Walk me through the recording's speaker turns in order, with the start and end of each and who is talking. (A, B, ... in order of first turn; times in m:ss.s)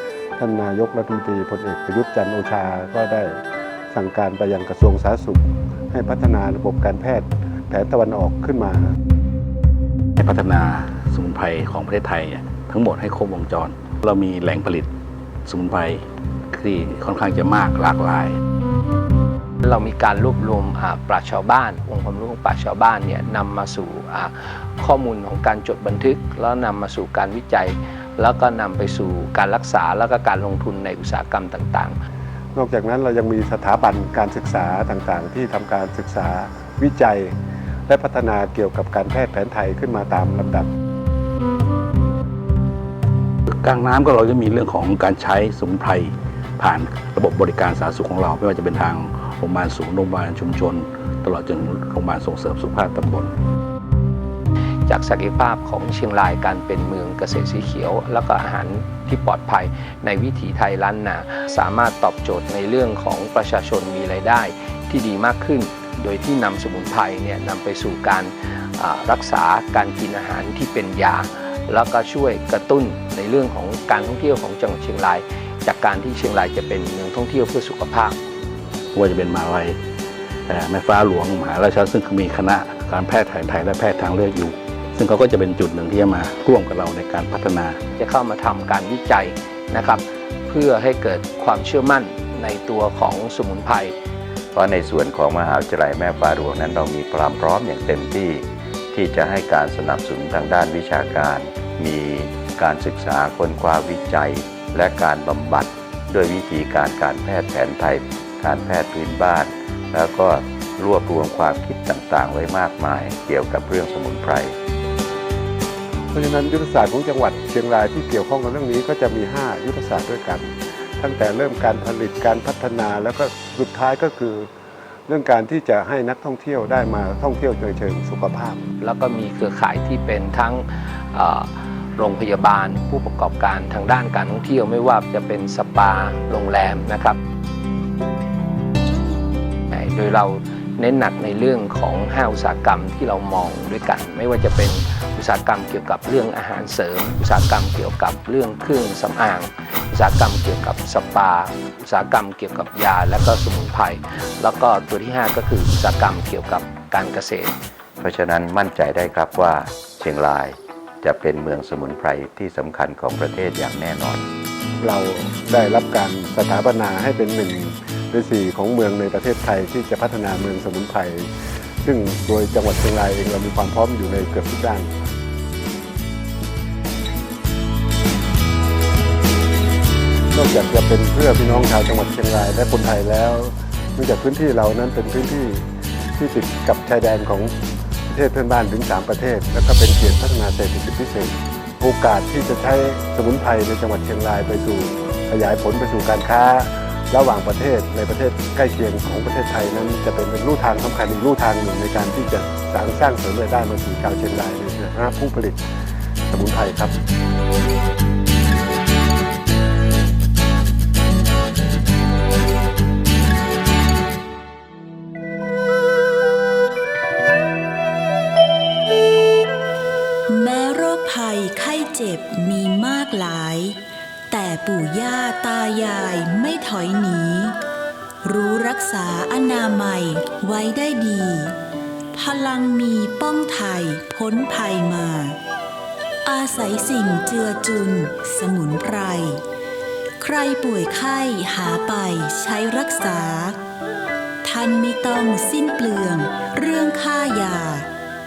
0:00.4-0:03.4 A
0:03.9-0:08.9 A
0:10.2-0:14.9 B
0:15.4-0:18.4 B
0:19.6-0:32.0 C
0:32.6-0:37.3 A
0:37.9-0:40.7 A
0:43.5-0:53.3 B
0:54.9-1:18.2 C
1:18.9-1:19.8 B
1:20.5-1:27.8 B
1:28.0-1:34.0 C
1:34.5-1:54.6 D
1:56.1-2:04.5 A
2:05.1-2:08.6 A
2:08.8-2:17.2 C
2:19.7-2:37.5 C
2:38.0-2:44.2 D
2:44.8-2:51.3 A
2:51.8-2:54.9 A
3:00.3-3:07.5 A
3:08.1-3:25.6 A
3:26.3-3:26.9 A
3:40.3-3:43.8 E
3:44.3-3:47.6 E
3:48.2-3:51.6 E
3:52.1-3:55.4 E
3:56.2-3:59.4 E
4:00.2-4:03.6 E
4:04.4-4:07.9 E